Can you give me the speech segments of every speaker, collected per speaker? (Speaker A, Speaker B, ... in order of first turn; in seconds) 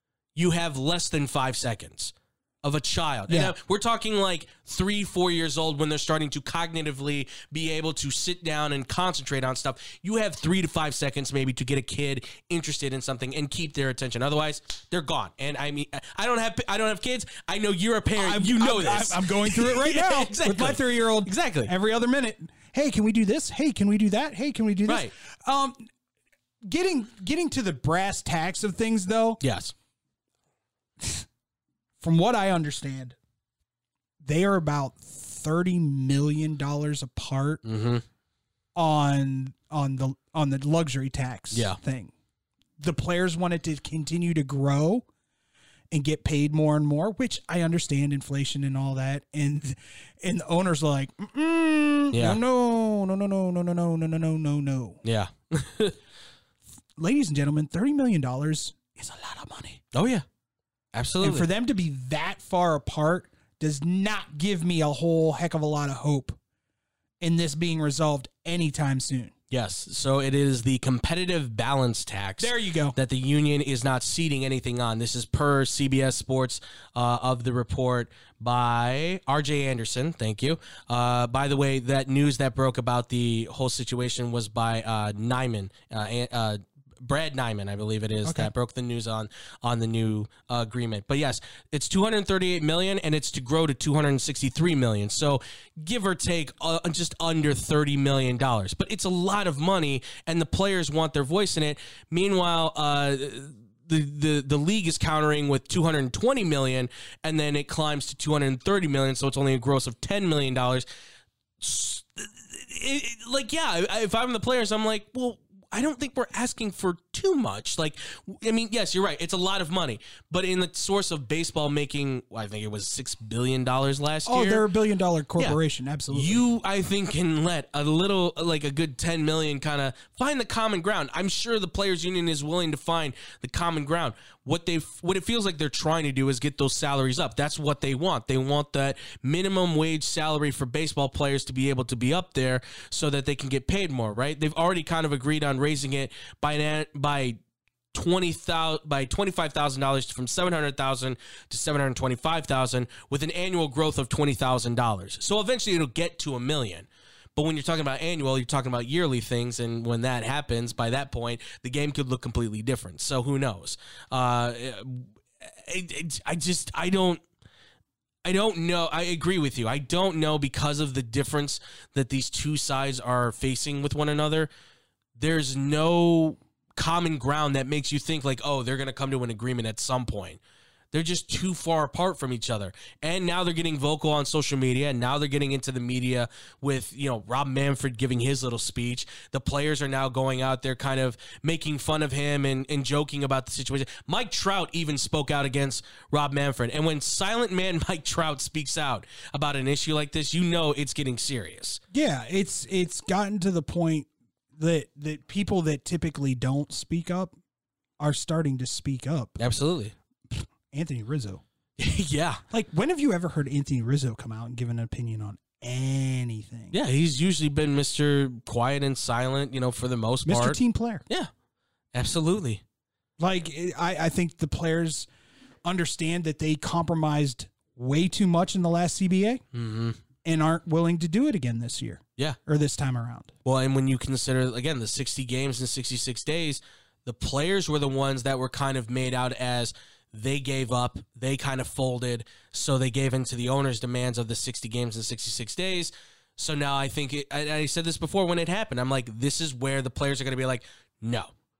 Speaker A: 0.3-21.7, 24.9-25.1, 29.4-29.7, 37.6-38.0, 41.5-41.8, 52.1-52.4, 55.0-56.0, 59.9-60.2, 60.9-61.5, 69.5-110.9, 111.6-124.6, 126.1-147.4, 147.9-167.2, 168.2-174.5, 175.2-180.4, 180.9-201.8, 209.4-209.9, 211.8-212.4, 216.7-220.6, 221.9-222.6, 229.5-230.0, 233.4-251.3
Speaker B: 3.3-3.5, 18.2-25.8, 26.6-29.4, 32.0-33.1, 34.2-37.6, 38.8-42.1, 42.8-45.1, 45.9-55.0, 57.0-59.8, 61.2-66.4, 67.2-69.3, 72.4-73.0, 88.2-88.5, 124.3-126.4, 201.9-207.3, 208.0-209.4, 210.3-211.4, 212.5-216.8, 220.3-221.0, 223.2-225.1, 225.7-229.4, 230.2-233.3